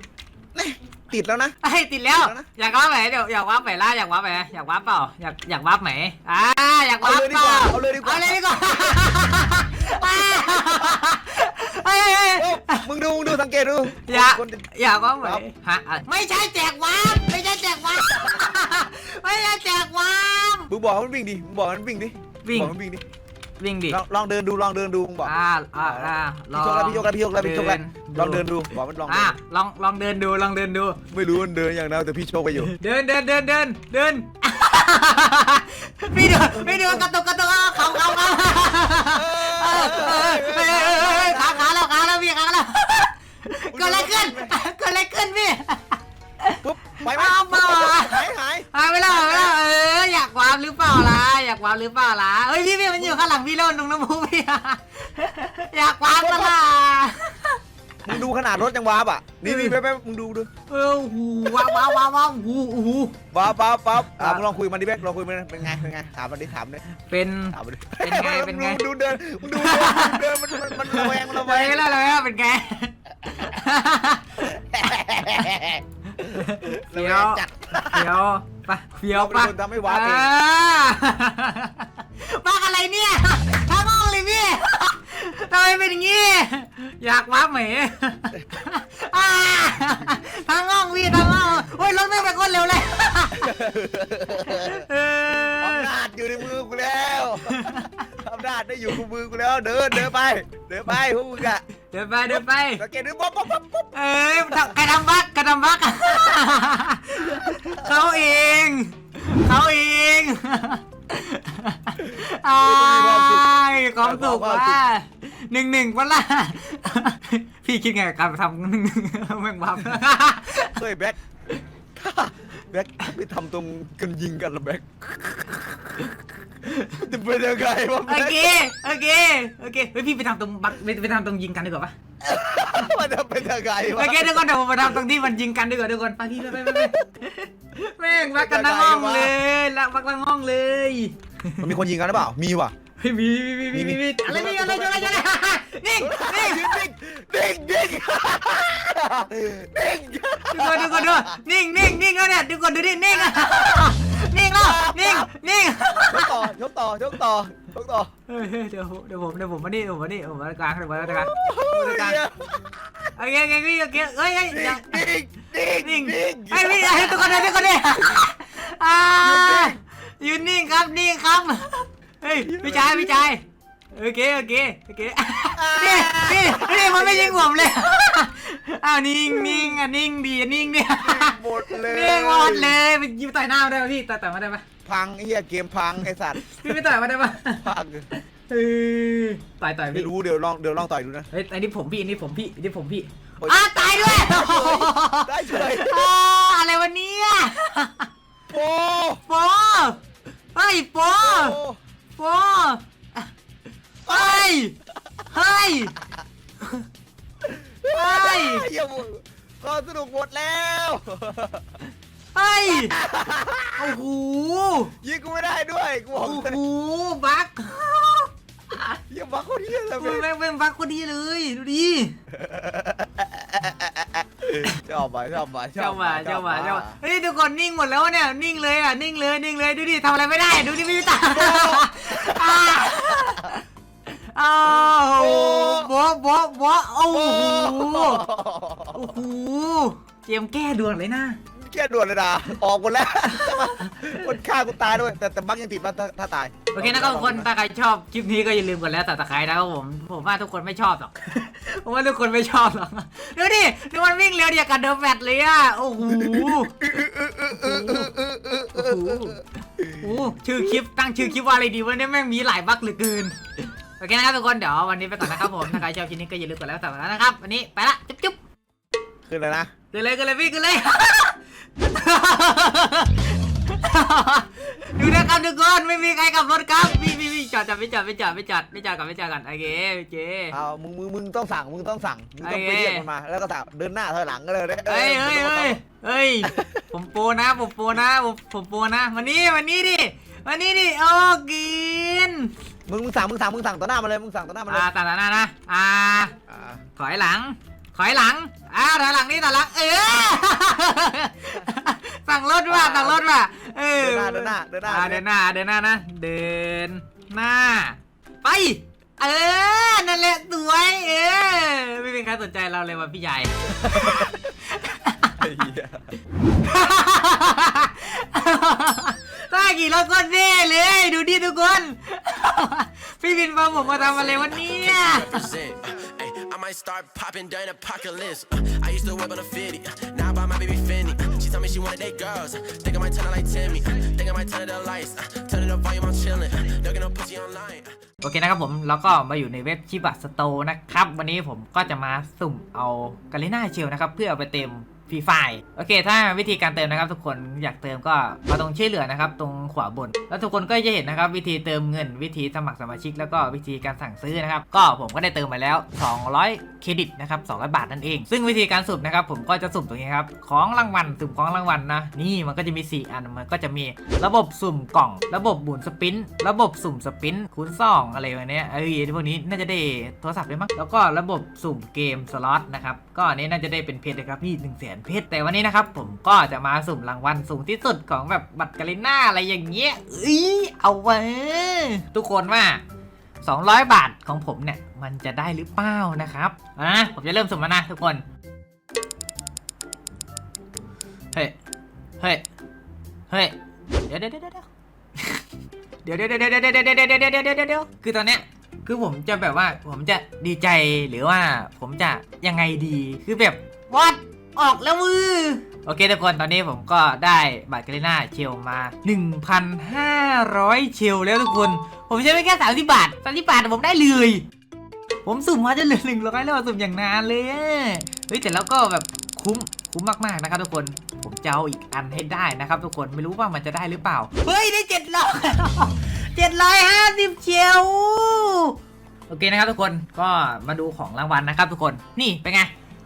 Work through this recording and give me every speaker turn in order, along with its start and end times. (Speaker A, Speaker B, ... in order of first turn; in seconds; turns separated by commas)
Speaker A: 0.5-1.6, Speaker B: 1.6-12.9, Speaker A: 2.1-2.5, Speaker A: 7.0-9.1, Speaker A: 10.0-11.0, Speaker A: 12.4-14.6, Speaker B: 13.9-20.7, Speaker A: 20.7-23.1, Speaker B: 22.4-22.7, Speaker B: 23.6-24.0, Speaker A: 23.9-25.3, Speaker B: 25.2-28.5, Speaker A: 25.8-29.4, Speaker B: 29.1-31.0, Speaker A: 31.1-32.7, Speaker B: 32.6-58.2, Speaker A: 36.4-37.0, Speaker A: 37.9-38.2, Speaker A: 39.0-41.7, Speaker A: 43.7-44.5, Speaker A: 46.6-49.6, Speaker A: 56.1-56.6, Speaker A: 58.1-60.5, Speaker B: 59.4-59.8, Speaker B: 60.7-63.2, Speaker A: 61.5-61.9, Speaker A: 63.3-66.8, Speaker B: 64.2-64.5, Speaker B: 67.0-68.8, Speaker A: 67.5-71.8, Speaker B: 69.5-74.5, Speaker A: 74.4-78.1, Speaker B: 76.2-93.5, Speaker A: 79.1-80.3, Speaker A: 93.3-94.9, Speaker B: 94.4-95.9, Speaker A: 95.6-101.6, Speaker B: 97.5-98.0, Speaker B: 101.9-102.8, Speaker A: 102.3-104.8, Speaker B: 103.9-120.8, Speaker A: 107.5-108.2, Speaker A: 112.0-114.8, Speaker A: 120.8-121.2, Speaker A: 122.0-126.1, Speaker B: 126.6-127.0, Speaker A: 126.8-128.5, Speaker B: 128.1-131.9, Speaker A: 132.2-134.4, Speaker B: 133.9-141.8, Speaker A: 136.5-136.9, Speaker A: 138.3-139.3, Speaker A: 141.6-142.7, Speaker B: 143.0-146.8, Speaker A: 143.7-145.3, Speaker A: 145.9-151.4, Speaker B: 150.5-156.5, Speaker A: 153.2-154.0, Speaker A: 154.6-155.3, Speaker A: 156.0-158.1, Speaker B: 158.3-162.2, Speaker A: 161.1-162.8, Speaker B: 163.2-165.1, Speaker A: 164.5-168.2, Speaker B: 165.8-184.7, Speaker A: 169.2-169.8, Speaker A: 172.3-173.3, Speaker A: 175.5-177.7, Speaker A: 179.3-179.8, Speaker A: 181.0-182.8, Speaker A: 184.8-186.8, Speaker B: 186.4-190.1, Speaker A: 187.6-188.1, Speaker A: 189.9-191.3, Speaker B: 191.3-198.1, Speaker A: 193.4-196.1, Speaker A: 198.5-199.2, Speaker B: 199.3-200.0, Speaker B: 200.6-201.6, Speaker A: 201.2-201.8, Speaker B: 202.2-203.3, Speaker A: 204.1-204.6, Speaker B: 204.1-204.8, Speaker B: 205.3-205.9, Speaker A: 207.4-211.7, Speaker B: 207.9-208.7, Speaker B: 212.3-212.9, Speaker A: 212.7-214.0, Speaker B: 213.8-214.9, Speaker A: 215.0-216.6, Speaker B: 216.2-219.0, Speaker A: 219.1-220.3, Speaker B: 220.0-222.2, Speaker A: 222.3-227.0, Speaker B: 225.8-238.2, Speaker A: 231.3-233.3, Speaker A: 234.8-235.9, Speaker A: 237.1-239.2, Speaker B: 238.9-241.4, Speaker A: 241.6-247.5, Speaker B: 243.3-244.4, Speaker B: 246.7-256.8, Speaker A: 256.1-260.1, Speaker B: 257.4-258.2, Speaker B: 258.7-263.4, Speaker B: 264.0-268.4, Speaker A: 269.3-269.7, Speaker B: 269.9-280.6, Speaker A: 280.5-285.8, Speaker B: 282.4-283.1, Speaker B: 284.9-292.5, Speaker A: 286.4-286.8, Speaker A: 292.9-294.9, Speaker B: 294.7-296.4, Speaker A: 296.5-296.8, Speaker B: 297.0-315.4, Speaker A: 302.7-303.3, Speaker A: 304.0-305.2, Speaker A: 313.9-314.3, Speaker A: 315.4-316.1, Speaker B: 316.6-325.5, Speaker C: 323.9-338.0, Speaker B: 338.2-382.8, Speaker B: 383.4-388.2, Speaker B: 393.3-393.6, Speaker B: 394.1-395.4, Speaker B: 396.0-414.5, Speaker B: 415.2-428.8, Speaker B: 429.3-432.7